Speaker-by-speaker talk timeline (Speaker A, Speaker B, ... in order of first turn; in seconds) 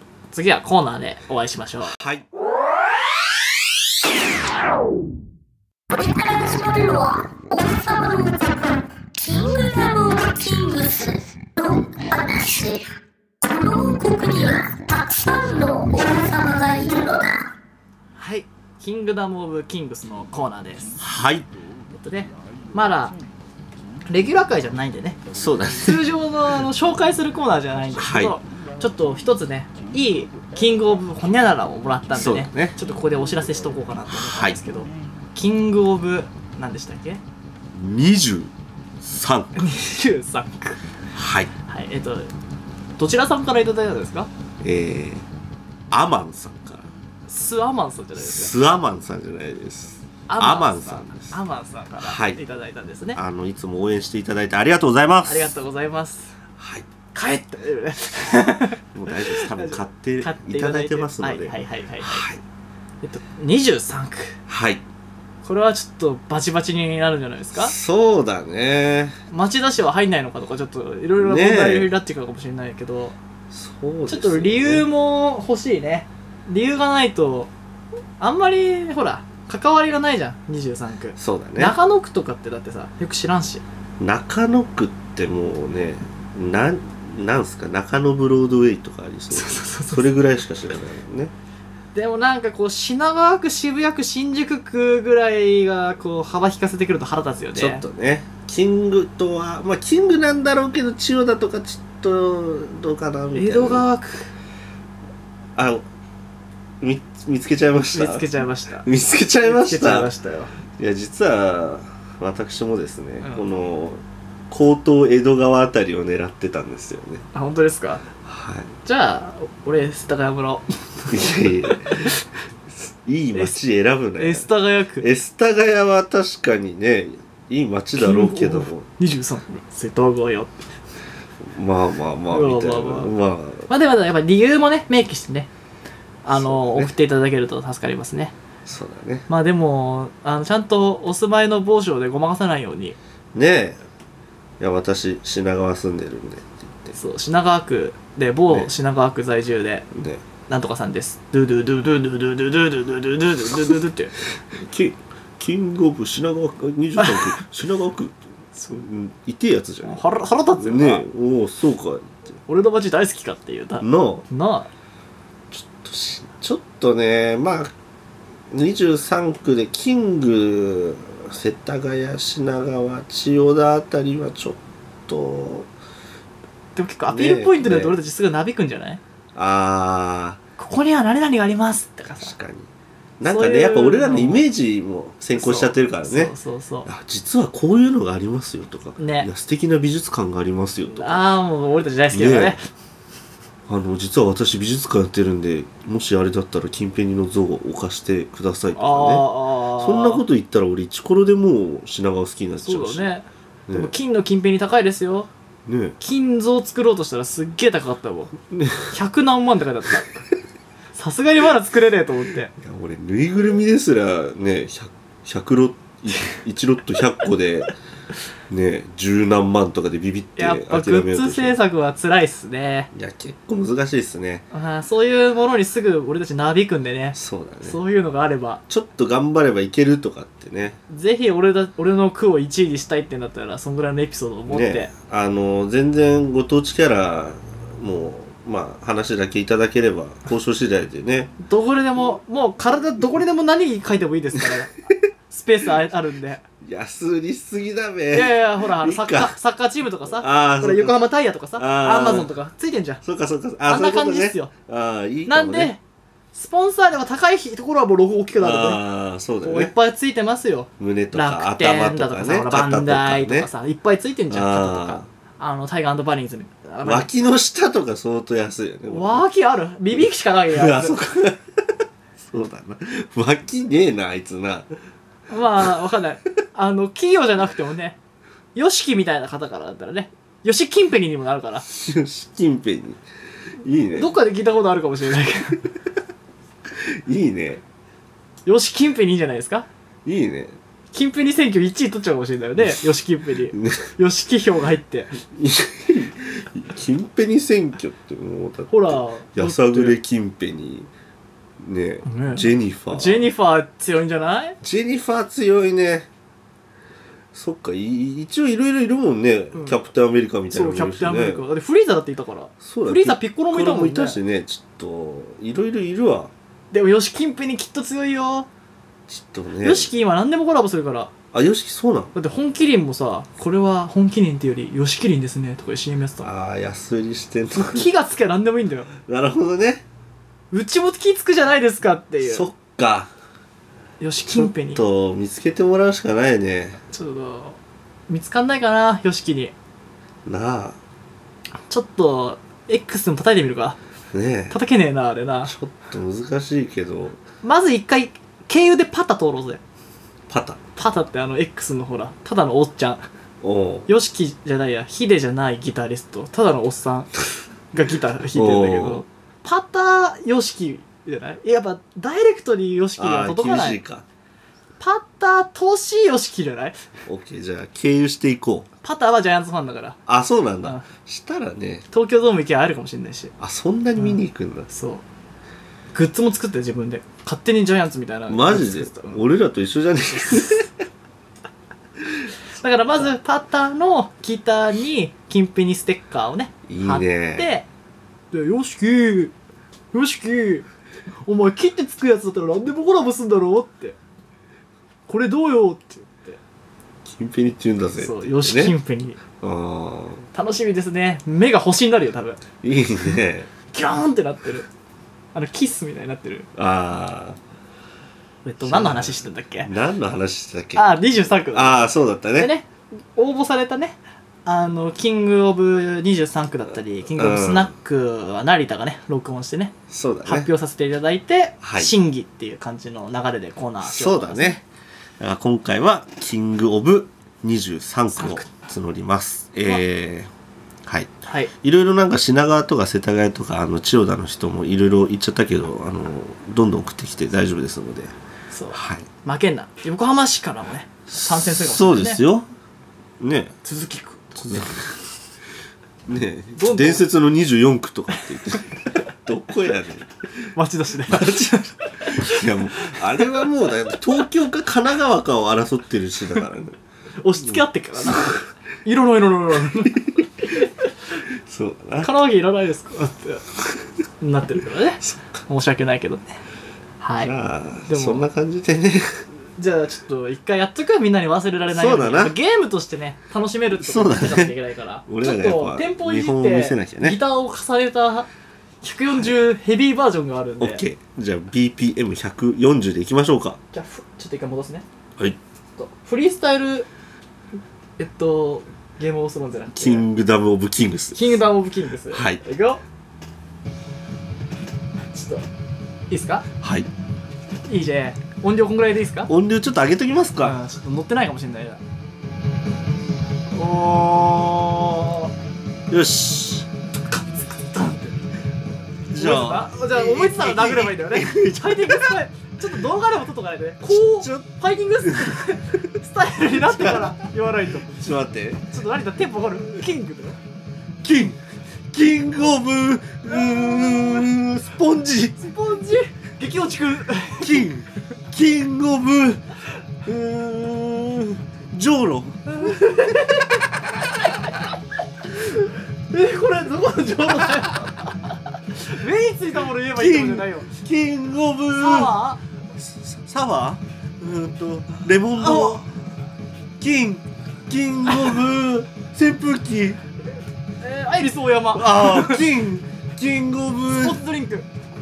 Speaker A: 0.3-2.0, 18.2-21.0, 21.9-23.1, 24.1-25.2, 25.8-37.2, 39.6-40.8, 41.6-42.3, 43.0-44.3, 47.3-48.6, 50.3-53.2, 55.2-56.4, 57.1-62.3, 63.0-64.4, 65.4-67.7, 69.3-73.2, 74.1-77.5, 78.2-83.6, 89.3-90.1, 91.9-97.8, 103.3-104.3, 107.9-108.9, 109.4-110.5, 117.3-118.0, 118.8-122.2, 124.2-125.1, 128.0-130.6, 132.3-133.1, 133.7-135.5, 136.2-138.3, 139.3-143.0, 146.9-149.9, 150.5-154.1, 157.0-157.4, 158.6-158.8, 159.8-161.1, 162.5-164.7, 176.8-179.0, 180.6-182.3, 183.2-184.5, 185.3-186.9, 189.0-189.3, 190.9-192.7, 198.8-200.2, 202.6-205.3, 206.0-208.3, 208.9-210.3, 210.9-212.5, 220.4-222.9, 224.5-228.6, 230.9-234.9, 241.4-244.8, 245.3-246.4, 248.1-253.0, 253.7-254.5, 255.3-255.8, 256.3-258.8, 259.4-267.1, 268.9-271.0, 275.3-278.0, 278.6-281.6, 283.9-285.7, 288.5-289.7, 290.9-295.1, 298.7-300.0, 302.1-304.6, 310.5-314.2, 316.7-318.5, 319.6-321.1, 322.1-326.3, 327.7-328.9, 330.5-332.5, 334.0-334.8, 336.9-339.5, 341.7-343.8, 344.5-345.5, 347.4-349.6, 350.8-353.1, 353.9-357.1, 357.7-363.8, 364.8-366.8, 368.8-370.0, 371.9-373.3, 374.0-375.0, 375.9-379.2, 380.1-380.6, 382.6-387.7, 388.3-389.3, 389.9-390.7, 391.3-394.0, 395.1-396.4, 398.0-399.2, 400.3-402.4, 403.7-404.7, 405.3-406.5, 408.4-409.7, 410.8-419.7, 420.2-424.6, 428.1-428.5, 431.3-431.5, 438.5-442.2, 443.6-444.6, 446.6-447.1, 450.6-453.5, 457.2-460.7, 462.0-463.4, 464.2-466.4, 467.0-467.3, 467.9-468.3, 469.6-478.3, 478.8-480.8, 483.7-484.9, 485.8-486.9, 488.0-490.1, 491.1-492.8, 495.1-495.4, 496.1-496.5, 497.7-499.3, 500.4-501.8, 503.5-505.3, 507.1-508.1, 509.2-517.9, 518.7-520.4, 523.3-524.3, 525.4-527.7, 532.5-533.6, 535.6-538.1, 538.8-540.7, 541.8-542.4, 545.4-545.9, 550.8-552.4, 554.0-554.7
Speaker B: 1.9-2.3, 21.0-21.5, 25.3-26.1, 28.0-28.4, 32.1-32.8, 34.1-34.6, 37.7-39.6, 41.1-41.5, 44.6-45.3, 45.9-46.9, 48.2-51.4, 52.0-52.4, 53.1-55.5, 56.6-56.9, 58.9-62.4, 64.5-64.8, 67.5-69.2, 71.2-71.9, 73.5-74.9, 81.2-81.8, 84.0-91.3, 97.5-103.9, 105.5-105.8, 106.8-108.3, 108.8-110.1, 110.8-117.3, 118.2-118.7, 121.1-122.1, 122.7-128.9, 131.4-133.7, 136.3-136.9, 138.7-139.3, 143.3-143.8, 144.6-146.9, 149.9-150.2, 154.5-158.2, 158.7-160.0, 160.6-162.4, 163.8-164.2, 165.5-167.7, 168.5-175.7, 177.1-178.0, 179.3-180.4, 182.2-186.3, 186.8-191.2, 192.1-192.6, 193.7-203.1, 203.7-203.9, 205.7-206.0, 208.5-208.9, 212.6-217.7, 218.5-221.6, 222.9-224.4, 227.2-227.8, 228.7-230.8, 234.5-241.3, 246.6-249.3, 250.1-251.0, 251.6-252.3, 253.0-255.7, 258.4-259.7, 260.8-263.5, 264.3-265.1, 266.8-269.2, 269.9-274.7, 281.6-283.0, 283.6-284.1, 286.7-287.6, 290.1-290.6, 293.5-293.9, 295.3-300.9, 301.6-303.3, 304.6-306.1, 307.3-311.4, 312.6-316.3, 319.1-319.9, 321.3-322.1, 326.2-327.9, 329.0-329.9, 332.2-333.1, 334.3-336.8, 340.3-340.8, 344.1-344.6, 345.4-347.2, 350.3-350.6, 353.4-353.9, 358.3-359.0, 363.0-364.1, 367.1-368.7, 370.1-371.9, 373.4-374.7, 378.3-380.7, 386.7-387.5, 397.1-398.8, 399.4-400.2, 402.6-403.5, 406.6-407.4, 408.6-410.9, 411.5-412.5, 417.1-417.7, 419.9-420.5, 421.6-421.9, 423.8-424.6, 425.2-430.3, 430.9-438.1, 438.7-439.1, 441.1-442.5, 443.2-443.6, 444.4-445.1, 446.1-450.5, 451.1-456.8, 457.4-458.4, 459.9-460.5, 461.4-462.1, 465.0-465.4, 467.2-469.2, 471.7-472.4, 473.8-474.6, 475.1-477.2, 479.1-479.4, 480.6-483.6, 489.8-491.4, 492.1-492.4, 496.6-496.9, 499.3-500.6, 505.9-506.7, 509.1-512.2, 513.8-514.5, 515.0-515.4, 516.5-517.2, 517.9-518.6, 521.0-521.4, 521.9-525.4, 527.4-529.4, 530.0-533.5, 539.9-542.2, 542.8-545.9, 546.8-550.0, 551.8-554.2
Speaker C: 5.9-12.9, 13.4-17.5